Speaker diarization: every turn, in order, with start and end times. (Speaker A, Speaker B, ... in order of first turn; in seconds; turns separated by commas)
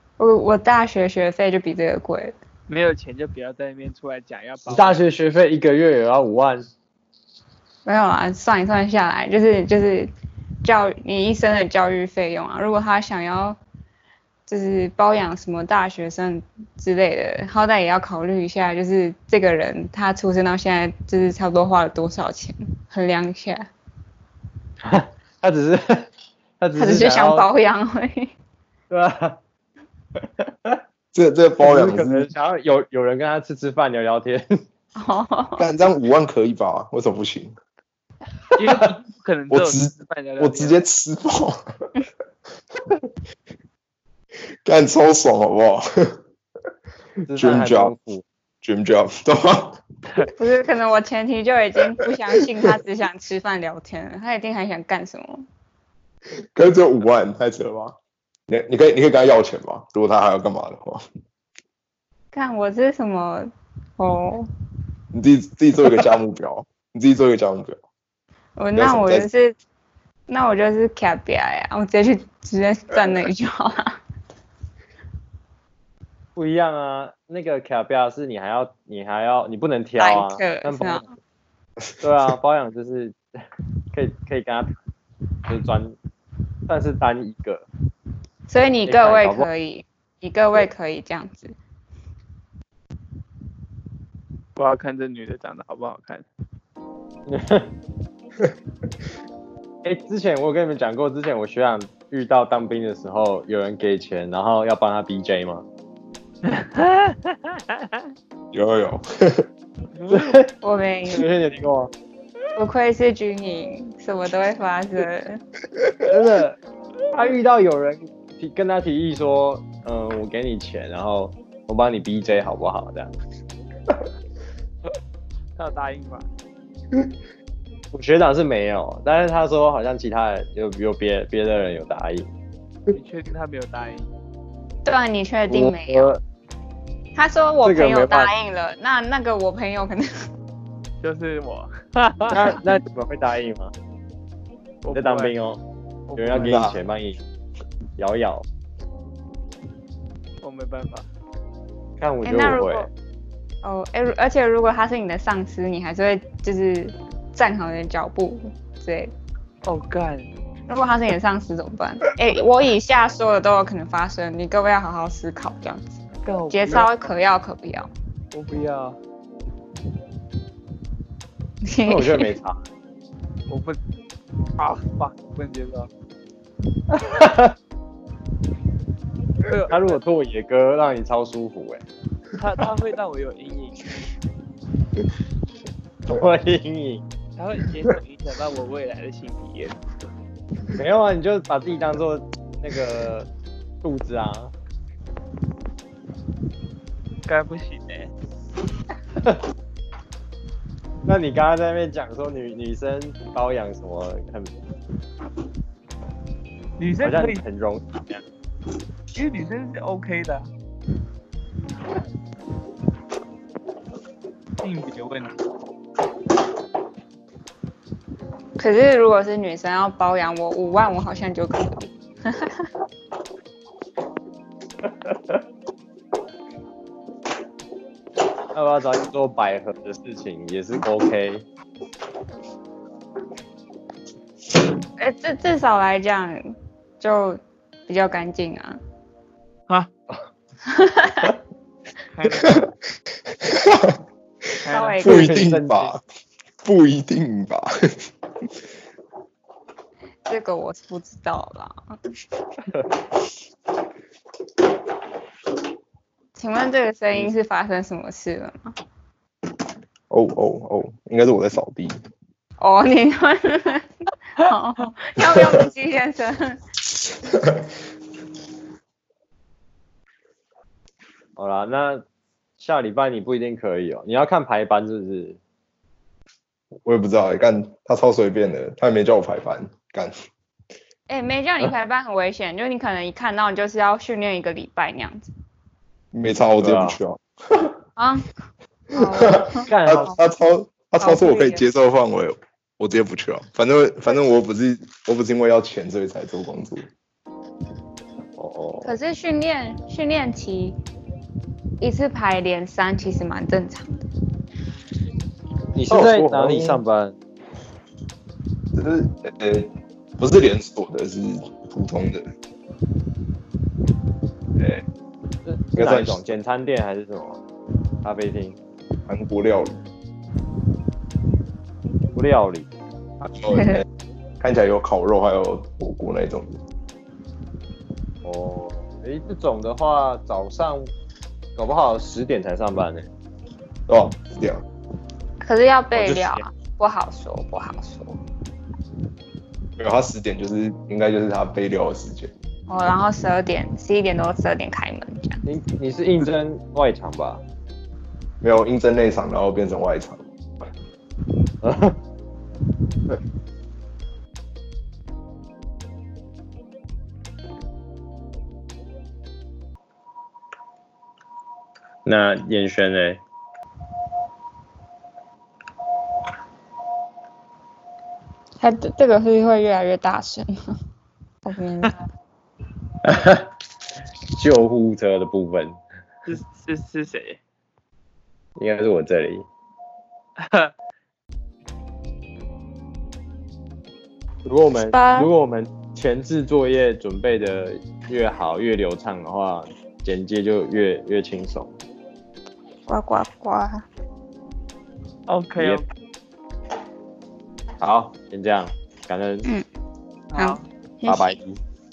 Speaker A: 0.2-2.4, Speaker B: 2.7-5.0, Speaker C: 4.7-6.7, Speaker A: 7.8-10.1, Speaker A: 10.6-13.6, Speaker A: 14.5-23.6, Speaker C: 24.9-26.1, Speaker C: 26.6-27.5, Speaker A: 26.8-28.4, Speaker C: 28.9-29.4, Speaker C: 30.4-30.8, Speaker D: 31.1-32.3, Speaker C: 31.6-34.5, Speaker A: 35.0-35.7, Speaker D: 35.6-37.6, Speaker B: 38.5-40.8, Speaker D: 39.5-41.6, Speaker D: 44.6-46.1, Speaker C: 47.2-48.2, Speaker D: 47.3-48.0, Speaker D: 48.6-49.8, Speaker A: 50.4-55.5, Speaker D: 56.5-58.0, Speaker D: 58.5-61.0, Speaker A: 62.3-64.5, Speaker D: 65.1-67.8, Speaker A: 68.6-69.6, Speaker D: 68.8-69.3, Speaker A: 70.3-74.0, Speaker C: 76.4-81.0, Speaker A: 80.0-81.2, Speaker C: 82.0-83.2, Speaker C: 83.9-84.7, Speaker C: 85.5-86.0, Speaker C: 86.7-87.7, Speaker A: 88.5-91.6, Speaker C: 88.9-89.5, Speaker B: 94.6-96.3, Speaker C: 97.3-97.7, Speaker C: 99.8-105.7, Speaker B: 106.5-108.0, Speaker D: 108.5-109.5, Speaker B: 110.0-110.4, Speaker C: 110.1-110.5, Speaker A: 110.6-111.3, Speaker C: 111.1-111.9, Speaker A: 112.6-115.4, Speaker C: 116.0-116.6, Speaker C: 117.1-123.1, Speaker B: 125.6-126.3, Speaker C: 127.9-132.3, Speaker B: 132.9-134.1, Speaker A: 134.8-136.1, Speaker C: 135.5-136.2, Speaker A: 137.2-140.1, Speaker C: 137.6-138.3, Speaker B: 141.0-142.6, Speaker C: 142.3-143.7, Speaker B: 144.8-145.4, Speaker C: 144.9-145.6, Speaker B: 146.1-146.6, Speaker C: 146.2-147.2, Speaker D: 146.3-146.8, Speaker C: 148.0-148.4, Speaker B: 150.4-151.1, Speaker C: 152.0-152.9, Speaker A: 152.2-152.9, Speaker A: 153.6-159.1, Speaker B: 159.6-160.3, Speaker A: 160.7-165.9, Speaker B: 166.2-166.9, Speaker A: 166.5-167.9, Speaker B: 168.3-169.0, Speaker A: 171.6-172.3, Speaker C: 171.9-172.6, Speaker B: 173.5-173.8, Speaker B: 174.6-175.9, Speaker C: 176.9-177.5, Speaker B: 179.4-180.0, Speaker C: 179.7-181.8, Speaker B: 182.3-183.8, Speaker C: 186.1-187.0, Speaker B: 187.4-189.8, Speaker C: 190.7-193.3, Speaker C: 193.8-194.5, Speaker B: 197.3-198.1, Speaker C: 201.1-204.6, Speaker B: 206.8-207.4, Speaker C: 207.0-208.2, Speaker B: 209.1-210.5, Speaker B: 214.6-215.3, Speaker A: 218.6-222.7, Speaker C: 224.9-225.4, Speaker C: 228.5-231.4, Speaker A: 235.0-238.8, Speaker A: 240.7-241.2, Speaker B: 242.1-242.7, Speaker D: 242.4-242.7, Speaker D: 243.4-243.9, Speaker B: 244.7-245.0, Speaker A: 244.7-245.3, Speaker D: 245.0-246.0, Speaker C: 245.0-245.9, Speaker D: 246.6-247.7, Speaker A: 250.3-251.8, Speaker A: 256.4-258.7, Speaker D: 260.1-262.0, Speaker A: 262.6-266.6, Speaker C: 271.4-272.0, Speaker C: 272.6-275.4, Speaker D: 276.9-280.2, Speaker A: 281.1-285.3, Speaker D: 286.1-287.7, Speaker C: 286.6-287.0, Speaker A: 288.0-288.3, Speaker A: 288.9-290.2, Speaker D: 288.9-296.9, Speaker C: 289.7-290.1, Speaker A: 291.0-291.6, Speaker C: 298.4-299.0, Speaker A: 298.8-300.8, Speaker A: 301.8-304.1, Speaker C: 305.7-307.2, Speaker D: 305.9-306.8, Speaker D: 308.8-312.2, Speaker D: 314.6-314.8, Speaker C: 315.4-317.4, Speaker D: 315.8-316.2, Speaker C: 318.0-318.6, Speaker D: 319.1-319.8, Speaker C: 322.1-322.7, Speaker D: 323.2-323.8, Speaker A: 323.5-323.8, Speaker D: 324.4-326.6, Speaker C: 328.2-330.9, Speaker C: 331.6-333.1, Speaker D: 333.9-334.6, Speaker A: 335.4-338.2, Speaker C: 335.9-336.4, Speaker D: 339.8-342.3, Speaker A: 342.7-345.4, Speaker C: 345.5-347.4, Speaker D: 348.4-350.3, Speaker C: 351.6-352.0, Speaker C: 362.1-363.2, Speaker A: 368.6-370.5, Speaker A: 371.4-372.0, Speaker C: 373.0-373.5, Speaker C: 374.3-375.8, Speaker B: 376.3-377.4, Speaker C: 378.6-379.5, Speaker B: 380.4-380.7, Speaker C: 384.4-391.8, Speaker A: 384.9-385.3, Speaker A: 392.9-393.9, Speaker B: 395.3-395.9, Speaker C: 397.8-399.5, Speaker B: 400.3-400.6, Speaker A: 400.4-401.4, Speaker C: 401.1-401.6